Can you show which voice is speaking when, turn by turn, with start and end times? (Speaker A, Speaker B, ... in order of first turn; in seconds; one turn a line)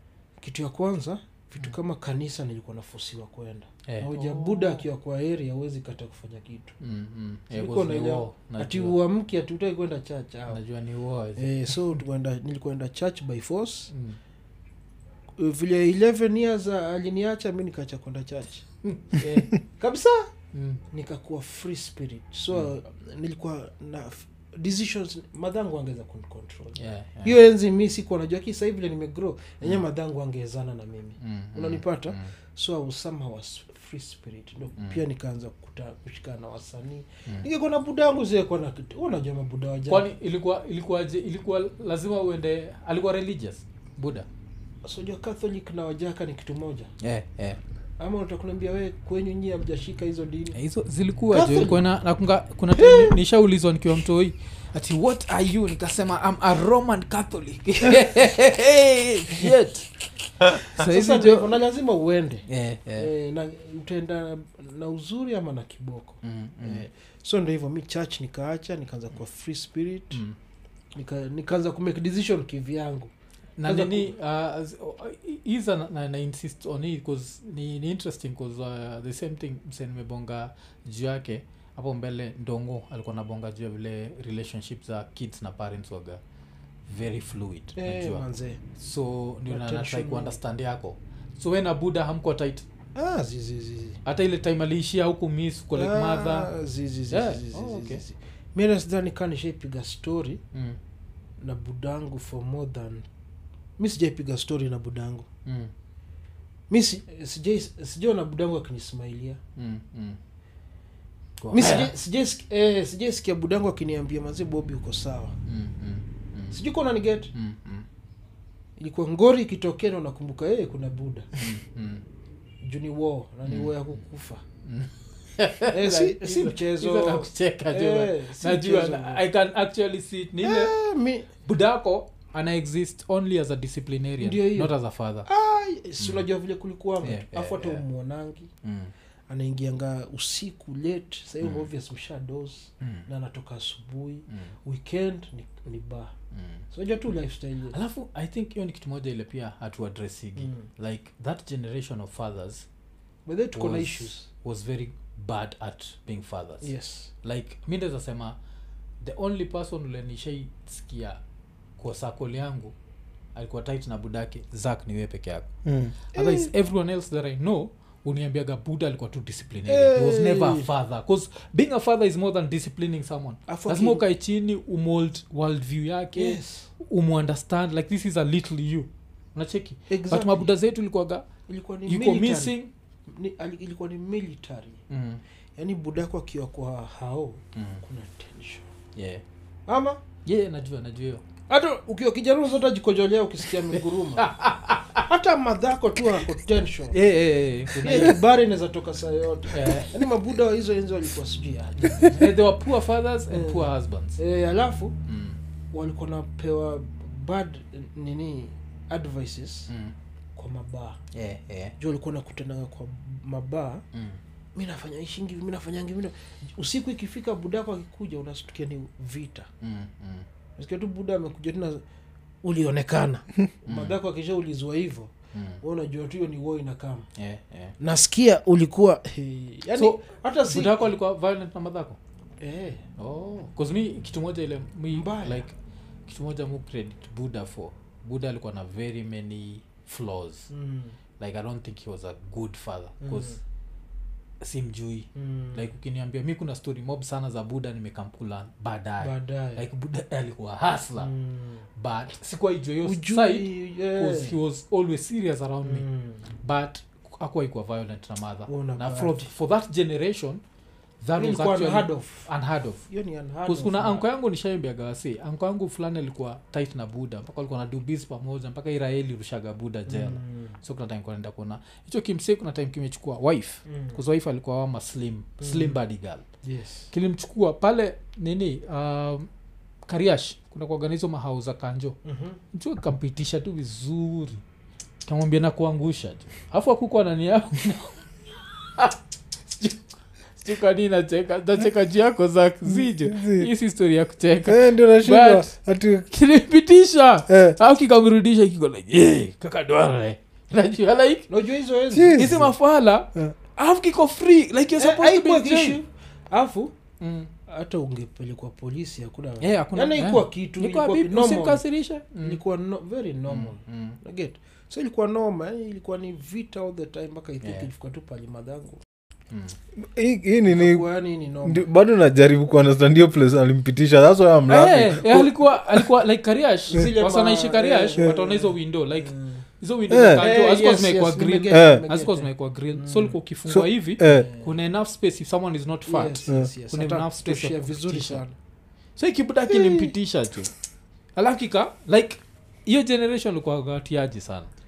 Speaker A: 0.4-6.8
Speaker B: 3.9-4.8
Speaker B: 6.8-9.0
Speaker A: 7.5-10.6
Speaker B: 10.5-11.8
Speaker A: 11.4-13.9
Speaker B: 13.9-14.2
Speaker A: 15.4-18.6
Speaker B: 18.9-19.6
Speaker A: 19.7-20.3
Speaker B: 20.5-20.8
Speaker A: 20.9-40.1
Speaker B: 26.8-27.4
Speaker B: 31.2-32.3
Speaker B: 39.9-44.3
Speaker A: 44.8-46.9
Speaker B: 47.0-47.6
Speaker A: 48.0-50.6
Speaker B: 50.5-59.9
Speaker A: 51.3-51.8
Speaker A: 52.8-53.2
Speaker B: 60.4-61.6
Speaker A: 60.5-62.4
Speaker B: 62.5-63.1
Speaker A: 63.0-70.2
Speaker B: 66.2-66.9
Speaker A: 71.0-73.1
Speaker B: 73.6-86.2
Speaker A: 73.6-74.1
Speaker B: 86.9-88.2
Speaker A: 87.8-88.6
Speaker B: 88.8-92.6
Speaker A: 89.5-90.4
Speaker A: 92.9-94.0
Speaker B: 94.0-96.5
Speaker A: 95.8-100.4
Speaker B: 97.1-98.0
Speaker B: 100.5-100.8
Speaker A: 101.4-103.1
Speaker A: 103.8-105.3
Speaker B: 105.5-105.7
Speaker A: 106.7-109.4
Speaker B: 109.6-110.2
Speaker B: 111.4-111.9
Speaker A: 111.5-115.4
Speaker B: 115.5-116.6
Speaker A: 116.5-117.3
Speaker B: 117.3-117.9
Speaker A: 118.8-121.3
Speaker B: 121.4-122.0
Speaker A: 122.6-124.4
Speaker B: 123.5-123.7
Speaker B: 124.6-130.7
Speaker A: 125.7-129.2
Speaker A: 130.4-131.3
Speaker B: 131.4-135.3
Speaker A: 134.2-134.7
Speaker A: 135.3-138.5
Speaker B: 136.0-136.2
Speaker B: 137.0-137.8
Speaker B: 138.6-138.9
Speaker A: 139.3-146.1
Speaker B: 141.4-141.7
Speaker B: 142.8-143.1
Speaker B: 144.3-144.6
Speaker B: 146.3-146.6
Speaker A: 146.7-147.8
Speaker B: 147.7-152.7
Speaker A: 150.4-150.7
Speaker A: 153.3-154.3
Speaker B: 153.6-156.7
Speaker A: 156.6-157.1
Speaker B: 157.2-158.4
Speaker B: 159.0-161.2
Speaker B: 161.8-162.7
Speaker B: 163.3-181.3
Speaker C: 165.6-165.9
Speaker A: 166.1-166.5
Speaker A: 169.7-170.7
Speaker A: 173.5-174.0
Speaker A: 176.1-176.7
Speaker A: 179.9-180.5
Speaker A: 181.5-182.6
Speaker B: 181.9-182.7
Speaker A: 183.1-184.8
Speaker B: 184.9-185.2
Speaker A: 185.6-188.7
Speaker B: 187.6-187.8
Speaker B: 188.9-189.2
Speaker A: 189.7-190.0
Speaker B: 190.2-191.2
Speaker A: 191.5-194.3
Speaker B: 193.7-195.1
Speaker A: 195.1-197.0
Speaker B: 196.9-198.2
Speaker A: 197.8-202.3
Speaker B: 199.5-200.0
Speaker B: 201.8-204.2
Speaker A: 203.3-204.9
Speaker B: 205.1-205.4
Speaker A: 205.7-209.7
Speaker B: 209.7-209.9
Speaker A: 210.4-211.0
Speaker B: 211.1-211.8
Speaker A: 211.8-213.8
Speaker B: 213.9-214.2
Speaker A: 214.6-219.5
Speaker B: 219.6-220.3
Speaker A: 220.6-221.8
Speaker A: 222.4-227.1
Speaker B: 223.7-223.9
Speaker B: 225.3-225.6
Speaker B: 227.2-227.8
Speaker A: 227.8-230.9
Speaker B: 229.8-232.0
Speaker A: 232.4-232.8
Speaker B: 233.0-235.6
Speaker A: 234.9-235.5
Speaker B: 236.1-240.5
Speaker A: 240.5-241.0
Speaker B: 241.2-243.4
Speaker A: 243.0-243.4
Speaker B: 244.4-251.1
Speaker A: 245.1-245.7
Speaker A: 249.0-249.6
Speaker A: 251.0-251.6
Speaker B: 251.8-255.9
Speaker A: 252.8-254.3
Speaker A: 255.6-256.3
Speaker B: 256.4-260.4
Speaker A: 258.5-259.2
Speaker B: 261.0-262.9
Speaker A: 261.1-262.3
Speaker A: 262.9-264.1
Speaker B: 263.4-276.2
Speaker A: 269.9-270.6
Speaker A: 273.7-274.0
Speaker A: 275.4-275.8
Speaker A: 276.4-276.9
Speaker B: 276.9-279.3
Speaker B: 279.9-282.0
Speaker A: 282.1-282.4
Speaker B: 282.5-284.4
Speaker B: 285.1-288.0
Speaker B: 288.8-295.5
Speaker C: 292.6-293.5
Speaker C: 294.4-296.1
Speaker B: 296.1-301.3
Speaker C: 297.3-297.6
Speaker A: 301.3-302.4
Speaker C: 301.9-302.5
Speaker B: 302.1-305.8
Speaker A: 304.8-306.8
Speaker B: 307.0-307.3
Speaker A: 307.4-311.6
Speaker B: 309.4-312.4
Speaker A: 312.2-318.8
Speaker B: 313.3-314.0
Speaker B: 317.4-317.7
Speaker B: 319.3-319.6
Speaker C: 319.8-320.9
Speaker A: 320.5-321.7
Speaker C: 321.4-325.9
Speaker B: 324.5-338.2
Speaker A: 326.7-329.4
Speaker C: 329.9-330.2
Speaker A: 330.2-333.1
Speaker C: 331.5-331.8
Speaker C: 333.5-334.3
Speaker A: 334.0-334.5
Speaker A: 335.9-338.4
Speaker B: 339.0-340.5
Speaker A: 339.5-339.9
Speaker B: 341.1-344.5